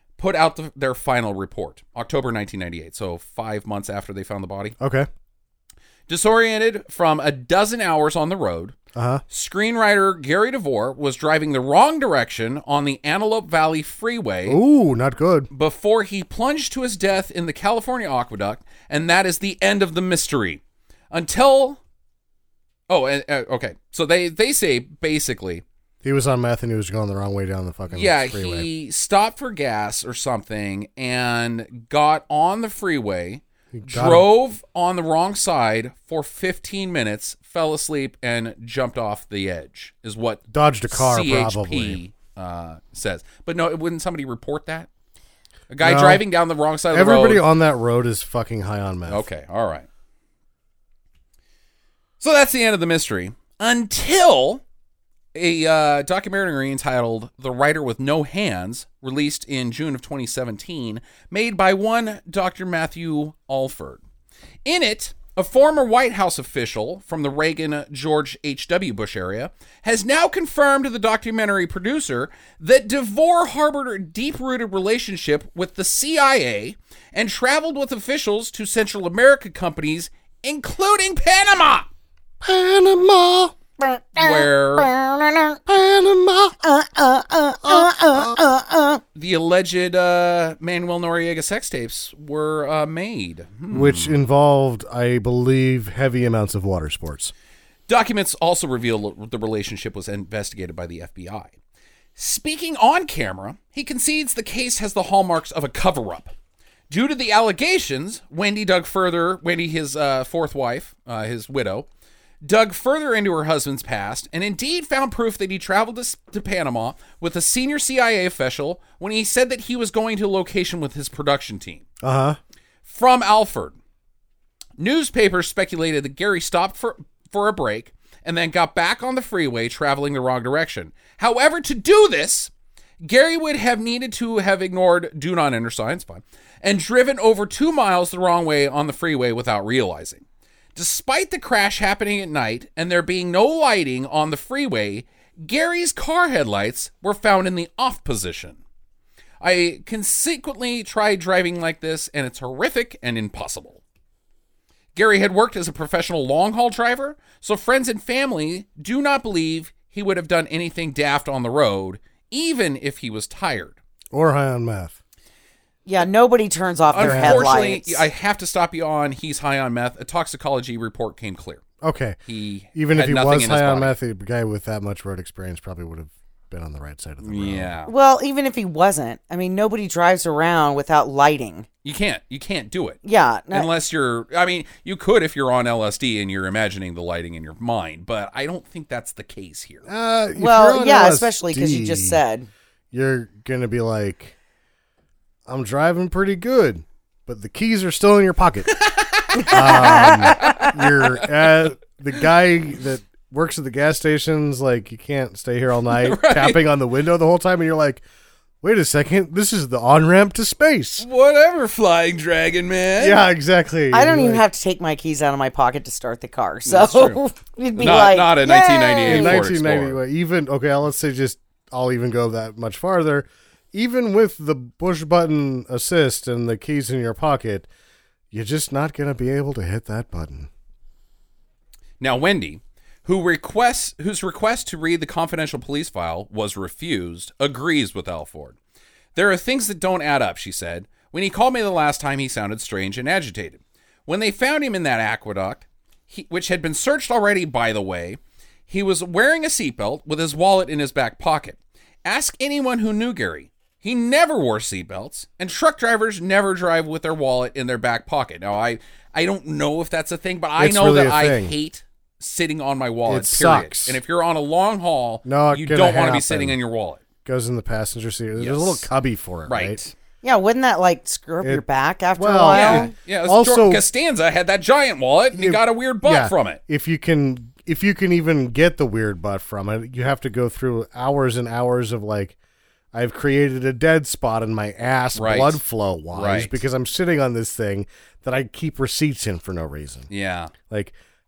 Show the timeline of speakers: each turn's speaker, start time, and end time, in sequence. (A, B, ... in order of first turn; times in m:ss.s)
0:00.2-0:04.8 A
0:04.8-0:05.1 B
0:06.1-0:08.8 A
0:08.9-0:09.2 B
0:09.3-0:14.6 A
0:14.5-0:15.5 B
0:15.5-0:21.8 A
0:22.9-0:25.6 A
0:26.0-0:28.7 B
0:27.9-0:44.9 A
0:33.7-0:34.3 B
0:40.5-0:42.0 B
0:45.7-0:47.4 A
0:45.8-0:46.2 B
0:46.9-0:49.2 B
0:49.1-0:49.9 A
0:52.2-0:54.6 A
0:55.3-1:04.0 A
1:04.6-1:21.9 A
1:22.4-1:23.6 B
1:23.8-1:25.6 C
1:24.2-1:24.9 A
1:25.7-1:26.6 B
1:26.6-1:29.0 C
1:27.6-1:28.4 B
1:29.1-1:34.2 A
1:33.7-1:37.3 B
1:37.9-1:41.5 A
1:42.2-1:46.3 A
1:46.9-1:51.9 A
1:52.4-2:01.8 A
2:02.0-2:02.4 B
2:02.8-2:03.8 A
2:04.8-2:28.6 A
2:29.4-2:33.8 A
2:34.9-2:43.8 A
2:44.1-2:45.0 B
2:45.8-2:48.0 C
2:46.9-2:51.6 A
2:47.0-2:47.7 B
2:51.8-2:52.2 B
2:52.2-2:53.9 A
2:52.7-2:57.7 B
2:57.2-2:57.9 A
2:57.9-3:01.6 C
3:01.8-3:03.0 A
3:03.0-3:03.7 C
3:03.5-3:09.9 A
3:09.8-3:12.2 B
3:10.4-3:12.5 C
3:12.9-3:14.3 B
3:15.4-3:18.7 B
3:18.8-3:21.1 A
3:19.4-3:28.0 B
3:19.5-3:20.7 C
3:25.9-3:26.7 A
3:28.6-3:31.0 B
3:31.0-3:33.2 A
3:33.0-3:34.4 B
3:33.9-3:39.5 C
3:36.6-3:37.2 A
3:37.8-3:40.0 A
3:39.0-3:47.7 B
3:48.3-3:50.5 B
3:52.0-3:58.6 A
3:59.1-4:27.0 A
4:20.6-4:21.5 B
4:23.1-4:24.0 B
4:25.2-4:26.6 B
4:27.2-4:29.8 B
4:28.4-4:28.9 A
4:29.5-4:29.9 A
4:30.2-4:32.9 C
4:32.2-4:33.8 B
4:32.5-4:36.6 A
4:35.3-4:42.4 B
4:42.9-4:50.1 B
4:45.1-4:46.6 A
4:50.1-4:50.5 A
4:50.7-4:50.9 B